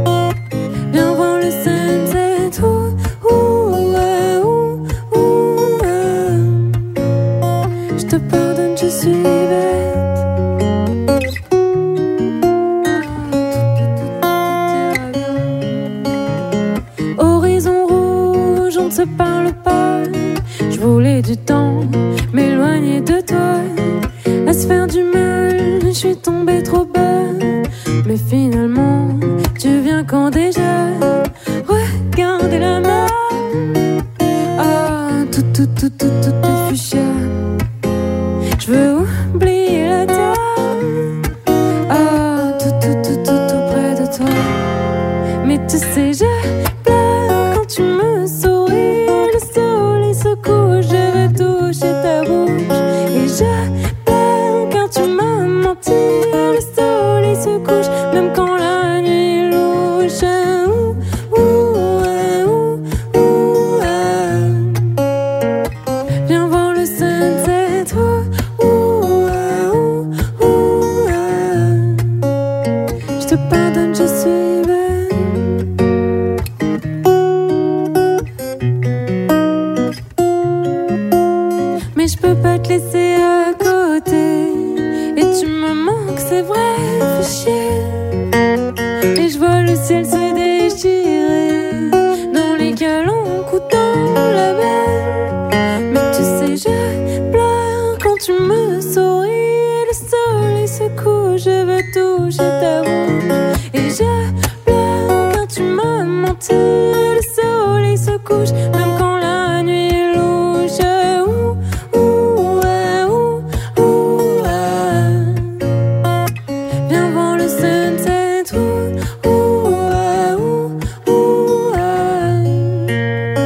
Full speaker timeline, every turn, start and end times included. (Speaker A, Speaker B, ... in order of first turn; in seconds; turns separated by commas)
Speaker A: 0.9-7.2, Speaker A: 7.9-10.3, Speaker A: 12.8-16.1, Speaker A: 17.1-37.6, Speaker A: 38.5-41.3, Speaker A: 41.9-44.8, Speaker A: 45.4-65.1, Speaker A: 66.2-72.4, Speaker A: 73.2-75.9, Speaker A: 81.9-88.3, Speaker A: 89.1-115.9, Speaker A: 116.8-123.1